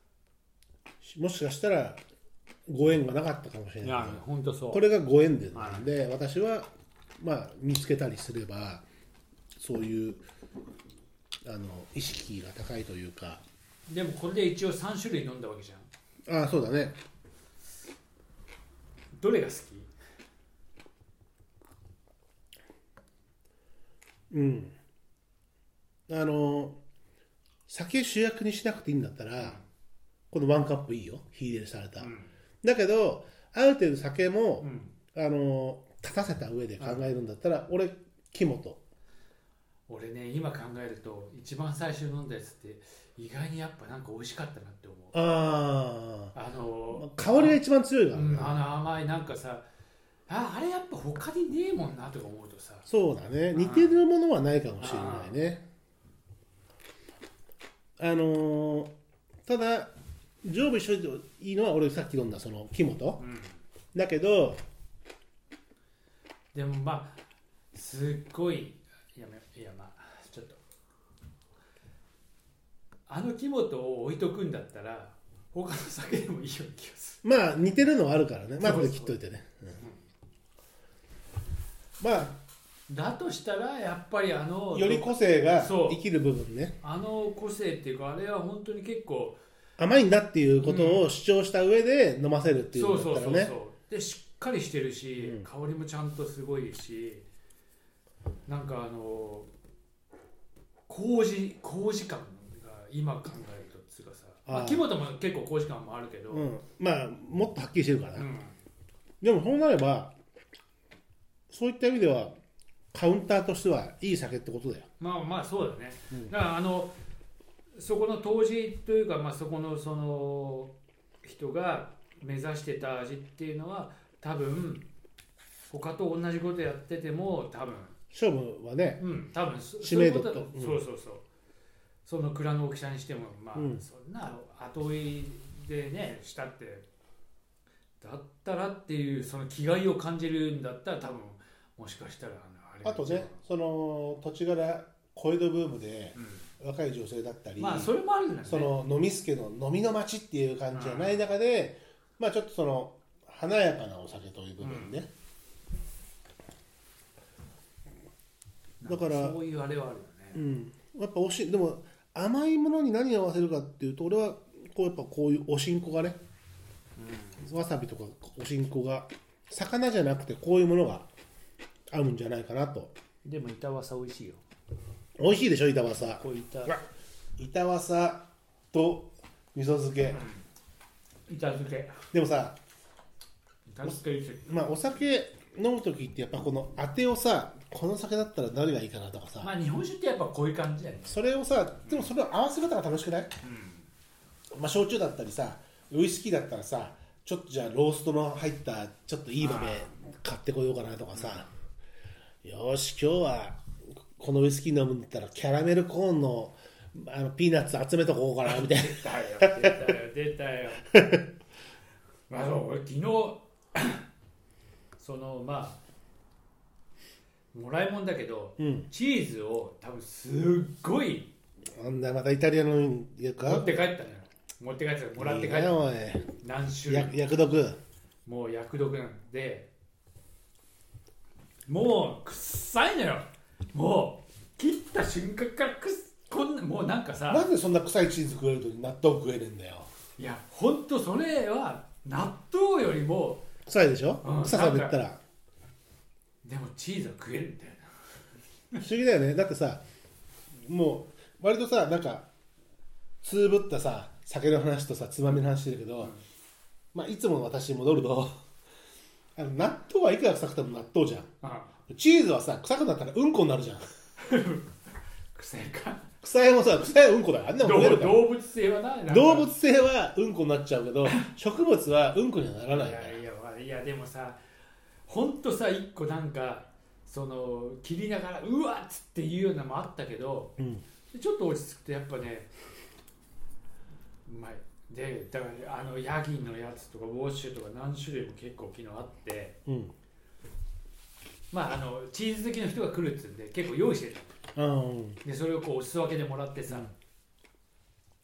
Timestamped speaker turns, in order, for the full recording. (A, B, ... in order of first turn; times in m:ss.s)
0:01.0-0:02.0 A
0:02.7-0:06.7 A
0:03.8-0:04.8 B
0:05.5-0:05.9 B
0:07.2-0:08.8 A
0:09.6-0:10.2 A
0:11.4-0:13.4 A
0:13.9-0:15.9 B
0:16.3-0:17.0 A
0:19.2-0:19.9 B
0:24.3-0:24.7 A
0:26.1-0:26.8 A
0:27.7-0:29.6 A
0:30.3-0:32.1 A
0:32.0-0:32.3 B
0:32.6-0:38.8 A
0:34.6-0:34.9 B
0:36.8-0:37.1 B
0:39.9-0:45.2 B
0:45.1-0:46.4 A
0:46.3-0:47.6 B
0:46.9-0:48.7 A
0:48.1-0:49.6 B
0:50.3-0:52.9 B
0:52.9-0:55.7 A
0:53.5-0:54.0 B
0:54.8-0:55.4 B
0:58.0-0:58.9 A
0:59.5-0:59.9 A
1:00.4-1:03.2 A
1:03.2-1:03.6 B
1:03.9-1:04.6 A
1:06.5-1:07.2 B
1:07.7-1:10.6 B
1:13.1-1:17.2 B
1:17.2-1:19.8 A
1:18.6-1:19.2 B
1:22.0-1:22.3 A
1:22.9-1:26.0 B
1:24.7-1:26.8 A
1:26.8-1:29.4 B
1:29.8-1:33.6 A
1:30.6-1:31.1 B
1:32.7-1:37.3 B
1:35.2-1:35.5 A
1:38.5-1:39.5 B
1:40.9-1:46.5 B
1:44.5-1:44.9 A
1:46.3-1:48.3 A
1:48.2-1:48.6 B
1:49.2-1:50.2 A
1:51.5-1:52.4 A
1:52.9-1:54.9 A
1:55.0-1:56.9 B
1:57.8-2:04.9 B
2:05.7-2:08.0 B
2:08.1-2:09.0 A
2:09.0-2:11.2 B
2:09.8-2:10.8 A
2:12.1-2:16.9 B
2:13.6-2:13.8 A
2:18.0-2:23.4 B
2:22.8-2:27.9 A
2:26.2-2:26.5 B
2:27.6-2:28.8 B
2:28.4-2:35.1 A
2:30.7-2:31.3 B
2:34.6-2:35.0 B
2:38.8-2:40.4 B
2:38.9-2:39.4 A
2:40.3-2:46.2 A
2:47.0-2:47.4 B
2:47.4-2:51.1 A
2:51.9-2:53.0 A
2:53.2-2:54.4 B
2:55.2-2:56.8 A
2:56.0-2:56.8 B
2:57.4-3:00.2 A
3:00.1-3:00.4 B
3:01.3-3:02.0 B
3:02.1-3:02.6 A
3:03.7-3:04.5 B
3:03.8-3:09.5 A
3:09.4-3:11.2 B
3:11.1-3:13.3 A
3:13.4-3:13.9 B
3:14.6-3:21.5 A
3:19.4-3:19.9 B
3:21.2-3:21.5 B
3:22.4-3:23.6 A
3:24.2-3:29.9 A
3:28.4-3:30.9 B
3:30.9-3:31.2 A
3:32.3-3:34.0 B
3:35.0-3:35.8 B
3:37.5-3:41.3 B
3:38.6-3:38.9 A
3:41.8-3:43.8 A
3:43.4-3:45.8 B
3:45.2-3:46.3 A
3:46.4-3:47.2 B
3:46.9-3:47.8 A
3:48.3-3:49.7 B
3:51.7-3:57.5 B
3:57.3-3:59.9 A
4:00.2-4:03.4 B
4:03.7-4:05.2 A
4:04.2-4:05.0 B
4:06.4-4:08.1 B
4:08.8-4:09.8 A
4:10.6-4:12.3 A
4:13.2-4:16.1 A
4:16.9-4:18.4 A
4:19.4-4:21.3 A
4:21.4-4:21.8 B
4:21.9-4:23.9 A
4:24.2-4:24.7 B
4:25.3-4:26.1 B
4:26.2-4:28.3 A
4:27.6-4:29.5 B
4:29.1-4:33.2 A
4:32.7-4:34.4 B
4:35.1-4:40.5 B
4:40.6-4:40.8 A
4:41.1-4:42.5 B
4:44.3-4:49.6 B
4:49.7-4:49.9 A
4:51.5-4:54.4 B
4:54.6-4:55.2 A
4:55.2-4:56.9 B